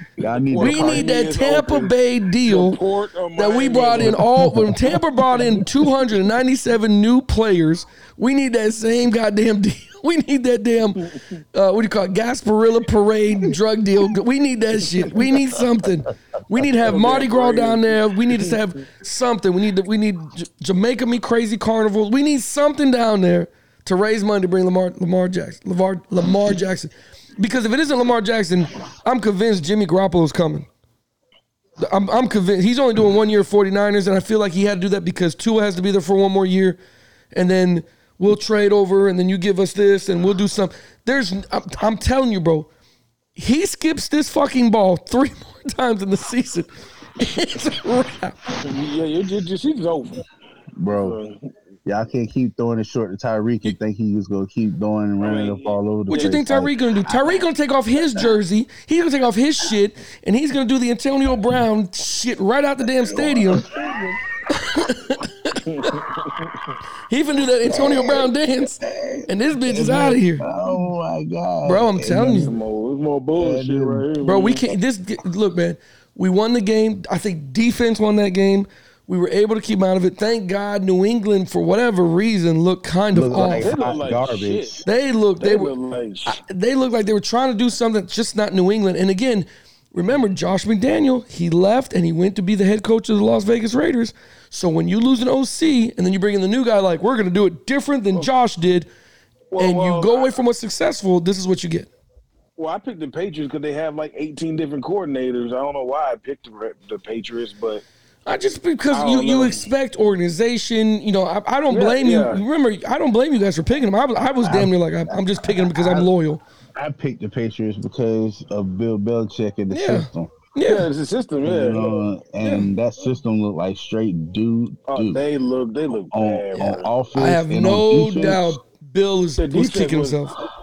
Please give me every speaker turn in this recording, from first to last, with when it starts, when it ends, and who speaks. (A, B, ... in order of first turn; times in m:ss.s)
0:00.2-0:01.1 A
0:00.2-0:04.3 B
0:00.6-0:02.8 C
0:03.4-0:30.7 C
0:16.8-0:18.6 B
0:31.8-0:36.8 C
0:37.3-0:42.7 C
0:43.4-0:48.4 C
0:48.6-0:50.2 B
0:50.8-0:51.2 A
0:50.9-0:51.4 B
0:51.9-0:56.7 A
0:55.2-0:56.3 B
0:56.1-1:03.6 C
1:03.0-1:04.1 A
1:03.7-1:04.0 B
1:04.5-1:06.0 C
1:05.6-1:06.6 B
1:07.1-1:10.4 C
1:07.6-1:12.5 A
1:11.6-1:12.5 C
1:12.3-1:14.6 B
1:13.4-1:14.1 A
1:14.2-1:23.7 C
1:23.1-1:24.8 A
1:23.3-1:24.8 B
1:24.9-1:25.7 C
1:25.4-1:26.4 B
1:26.3-1:38.9 C
1:39.5-1:40.4 B
1:39.6-1:41.9 C
1:42.6-1:47.8 B
1:48.3-1:56.4 C
1:48.9-1:49.6 B
1:51.7-1:52.4 B
1:54.4-1:56.1 A
1:56.8-2:00.3 A
1:59.7-2:00.9 C
2:00.6-2:01.9 B
2:01.4-2:05.2 A
2:02.4-2:02.7 C
2:04.9-2:06.9 B
2:06.1-2:08.6 A
2:07.2-2:10.4 C
2:09.4-2:10.3 B